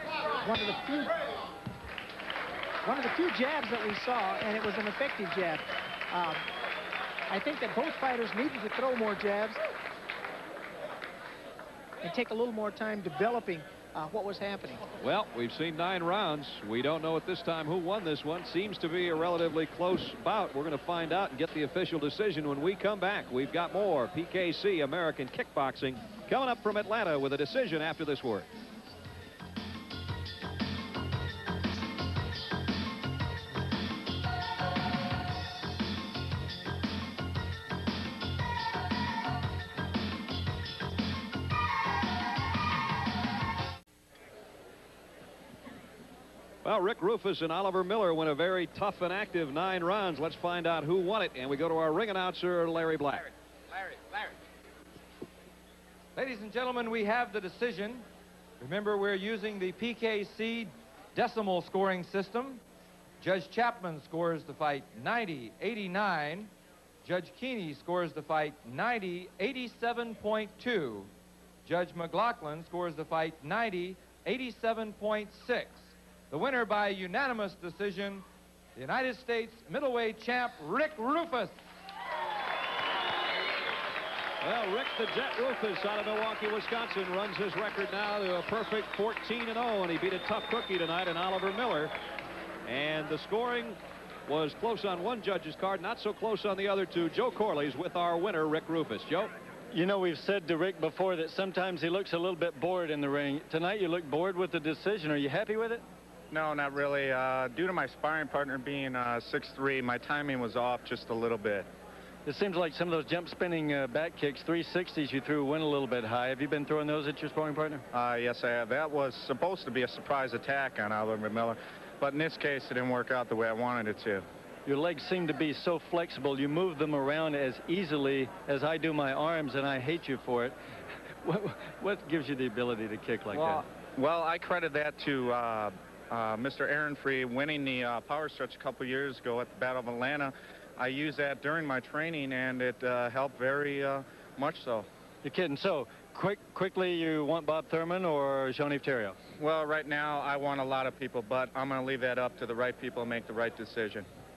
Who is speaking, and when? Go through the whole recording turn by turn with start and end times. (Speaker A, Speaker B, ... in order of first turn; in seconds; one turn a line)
Speaker A: 0.4-1.1
Speaker A: 2.8-6.4
Speaker A: 7.3-9.6
Speaker A: 12.0-14.8
Speaker B: 15.0-28.5
Speaker B: 46.6-53.3
Speaker C: 56.1-58.0
Speaker C: 58.6-62.6
Speaker C: 63.2-66.5
Speaker C: 67.0-71.1
Speaker C: 71.6-78.2
Speaker C: 78.8-81.5
Speaker B: 84.4-91.9
Speaker B: 92.7-99.3
Speaker D: 99.7-105.8
Speaker E: 106.3-111.7
Speaker D: 112.2-117.8
Speaker E: 117.9-124.2
Speaker D: 124.7-130.5
Speaker D: 131.2-133.6
Speaker E: 133.3-144.9
Speaker D: 145.2-149.2
Speaker E: 149.4-154.1